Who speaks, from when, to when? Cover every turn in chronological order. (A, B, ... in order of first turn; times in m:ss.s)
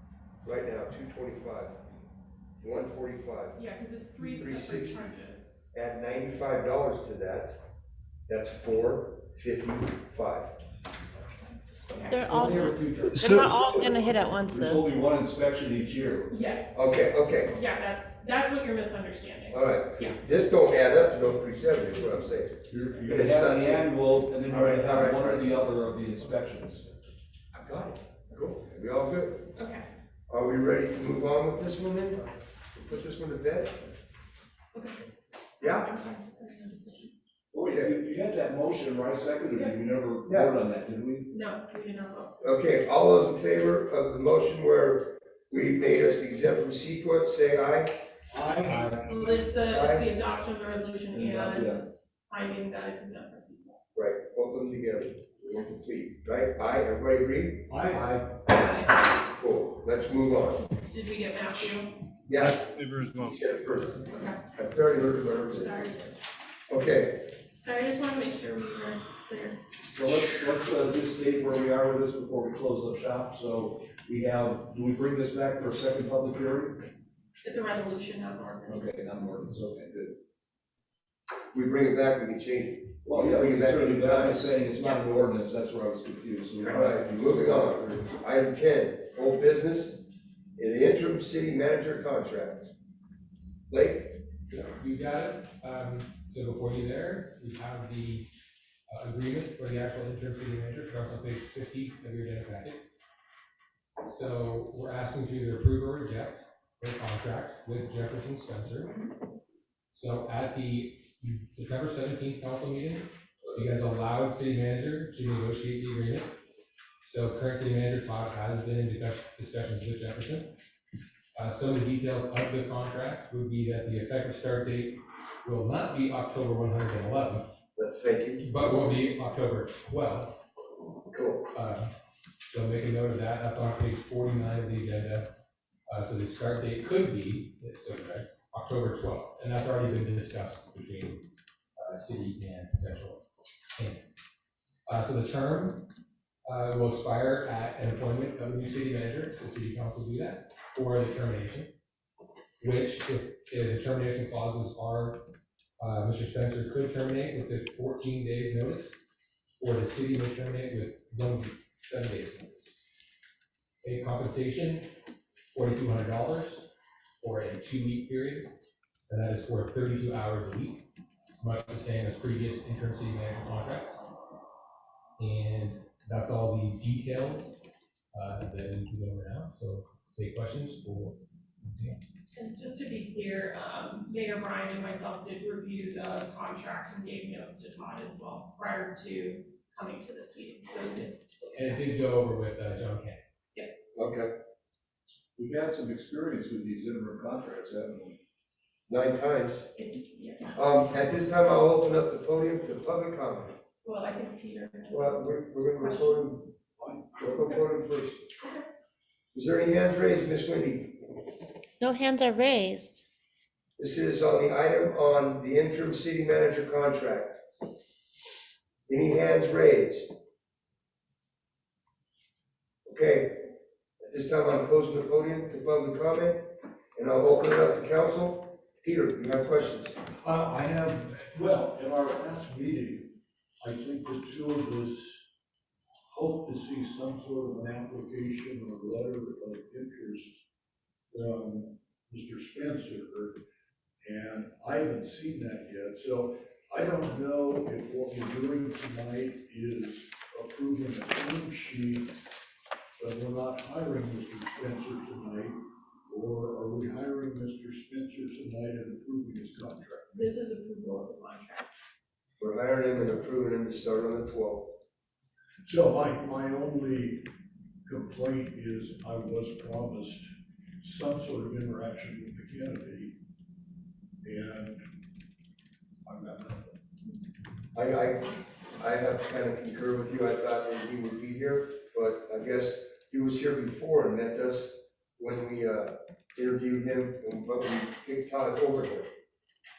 0:00.4-0:01.8 A
0:02.6-0:03.6 A
0:03.6-0:05.6 B
0:04.2-0:05.1 A
0:05.7-0:07.6 A
0:08.3-0:10.5 A
0:11.9-0:12.3 B
0:12.1-0:14.8 C
0:12.3-0:13.2 D
0:13.2-0:13.5 E
0:13.2-0:13.6 F
0:14.5-0:16.3 D
0:16.3-0:16.8 B
0:16.7-0:17.6 A
0:17.5-0:20.2 B
0:19.5-0:23.9 A
0:22.7-0:27.0 D
0:24.5-0:25.6 A
0:27.5-0:29.5 A
0:29.5-0:29.9 B
0:30.3-0:33.9 A
0:34.7-0:35.1 B
0:35.6-0:35.9 A
0:35.6-0:37.2 B
0:37.5-0:41.3 D
0:37.6-0:37.9 A
0:41.3-0:42.4 B
0:42.4-0:48.0 A
0:48.3-0:48.9 F
0:49.0-0:53.8 B
0:49.7-0:50.1 A
0:51.1-0:51.8 D
0:53.9-0:57.7 A
0:57.7-0:58.2 F
0:57.9-0:58.3 D
0:58.5-0:59.0 B
0:59.2-1:00.6 A
1:00.8-1:02.0 B
1:02.3-1:05.7 A
1:04.1-1:04.4 B
1:05.0-1:06.1 B
1:06.7-1:07.3 A
1:07.6-1:09.6 B
1:09.9-1:16.8 D
1:17.4-1:18.9 B
1:18.7-1:20.2 D
1:21.5-1:24.5 A
1:23.0-1:28.0 D
1:26.6-1:26.9 B
1:26.6-1:30.1 A
1:30.6-1:32.7 A
1:33.7-1:34.2 A
1:34.5-1:38.3 E
1:38.9-1:42.8 E
1:44.0-1:49.0 E
1:49.9-1:56.3 E
1:57.0-2:00.5 E
2:01.4-2:07.5 E
2:07.8-2:08.6 A
2:08.4-2:10.4 E
2:11.1-2:11.5 A
2:11.5-2:15.3 E
2:15.9-2:24.1 E
2:24.9-2:25.9 E
2:26.5-2:31.7 E
2:32.6-2:35.3 E
2:35.8-2:39.0 E
2:39.6-2:42.8 E
2:43.8-2:44.9 E
2:45.5-2:48.5 E
2:49.1-2:50.9 E
2:51.4-2:54.0 E
2:55.2-2:57.6 E
2:58.1-3:02.0 E
3:02.3-3:11.9 B
3:11.6-3:13.2 E
3:14.0-3:14.3 A
3:15.4-3:18.2 D
3:18.9-3:19.7 A
3:19.8-3:20.6 B
3:20.6-3:23.6 A
3:23.8-3:26.3 B
3:24.9-3:26.5 A
3:26.8-3:27.5 F
3:27.2-3:28.3 A
3:29.3-3:31.1 A
3:31.8-3:33.0 C
3:33.8-3:37.4 A
3:38.9-3:40.1 A
3:42.8-3:43.5 A
3:44.0-3:49.9 A
3:50.1-3:55.2 F
3:56.1-4:00.4 F
4:01.1-4:03.4 F
4:04.0-4:12.1 F
4:13.0-4:20.1 F
4:20.1-4:21.7 B
4:22.4-4:24.7 A
4:25.6-4:27.3 F
4:27.9-4:30.3 F
4:30.8-4:33.2 F
4:34.2-4:34.8 F
4:36.0-4:36.8 F
4:37.7-4:49.1 A